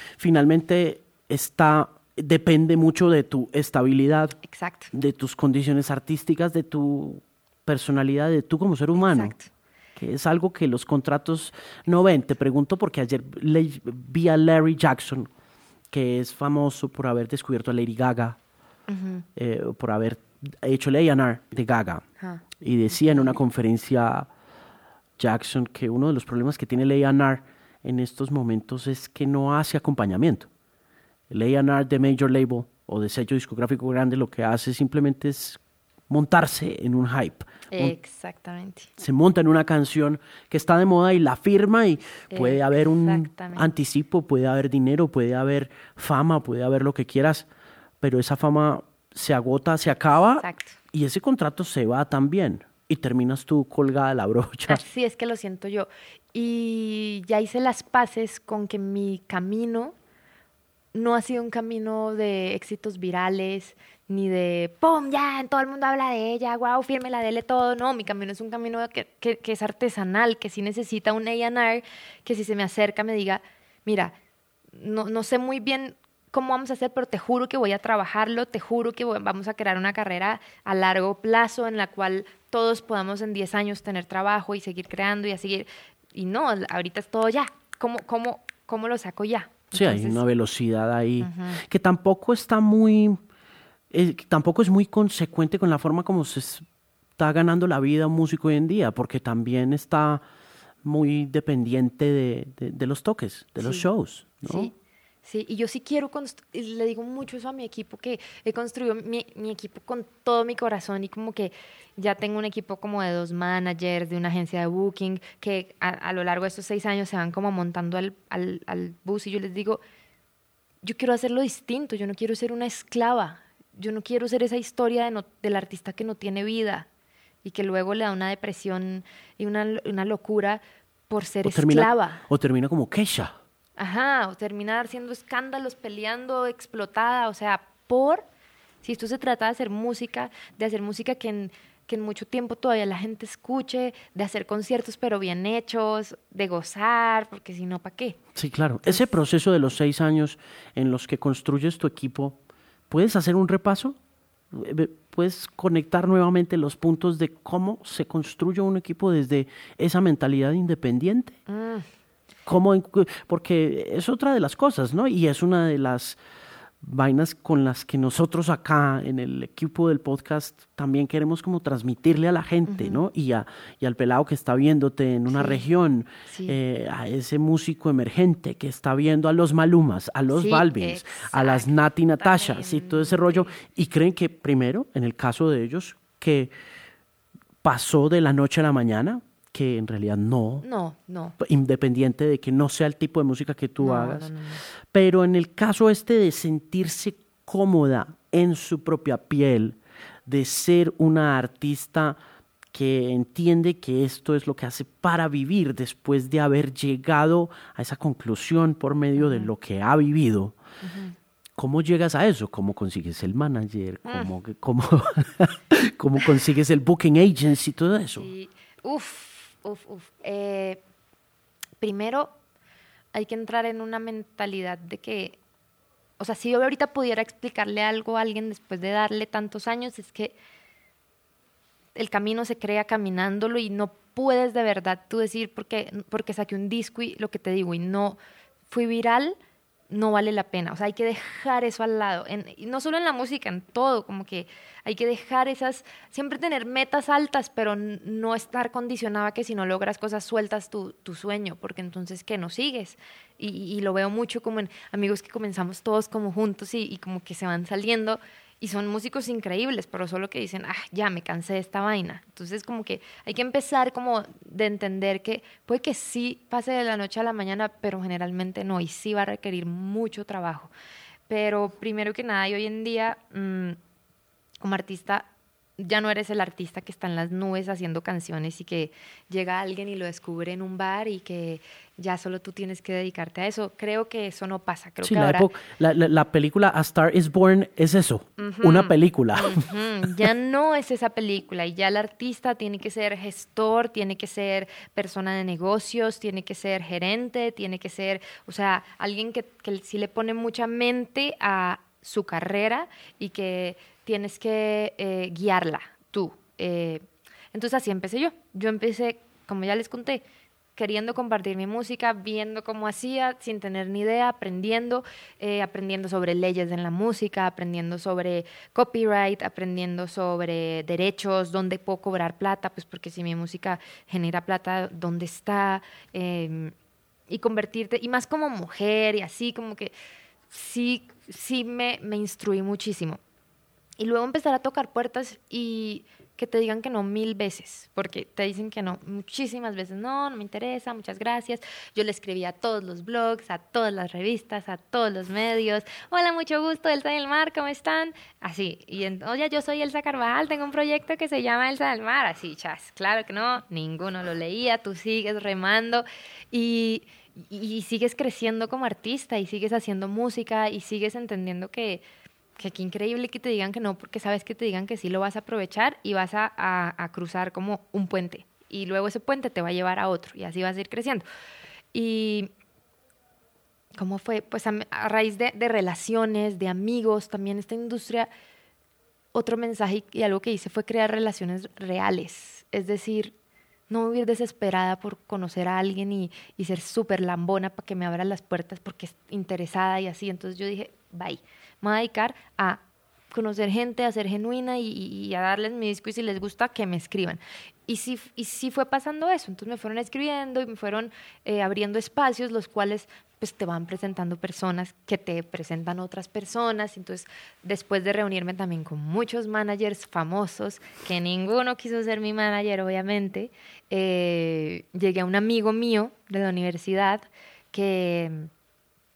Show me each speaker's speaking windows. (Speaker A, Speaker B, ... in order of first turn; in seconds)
Speaker A: 0.2-4.4, 4.9-9.3, 10.0-15.3, 15.9-18.4, 19.4-22.1, 22.6-24.3, 25.2-30.5, 31.3-35.6, 36.1-38.0, 39.0-47.5, 48.0-54.8, 89.7-93.2, 93.9-96.7, 97.2-100.2, 100.8-104.7, 131.4-133.4, 148.4-152.4, 152.9-154.0, 154.5-161.4, 162.5-166.2, 166.8-186.5, 187.6-190.7, 191.4-202.2, 202.7-210.6, 211.6-218.3, 285.0-289.7
Speaker B: 4.4-4.9, 9.0-9.5, 18.9-19.3, 22.2-23.4, 37.7-38.9, 42.3-43.7, 50.4-50.8, 54.7-60.0, 60.9-74.2, 74.7-90.2, 91.2-91.6, 103.6-103.9, 104.4-104.7, 105.2-119.8, 120.8-126.9, 127.4-132.2, 133.8-138.3, 138.8-148.2, 161.5-161.9, 172.7-173.1, 175.3-175.6, 176.3-176.6, 180.3-183.5, 190.6-191.4, 193.8-194.6, 209.2-209.5, 210.8-211.2, 214.1-214.3, 218.2-220.8, 221.8-222.4, 223.1-225.4, 226.2-230.4, 231.9-238.2, 238.7-239.4, 239.9-270.7, 271.3-273.8, 274.6-285.5, 288.4-310.2, 310.8-326.8, 327.3-329.9, 330.5-333.2, 334.0-362.1, 362.6-371.3, 371.9-372.5, 373.9-378.3, 379.3-383.4, 383.9-418.5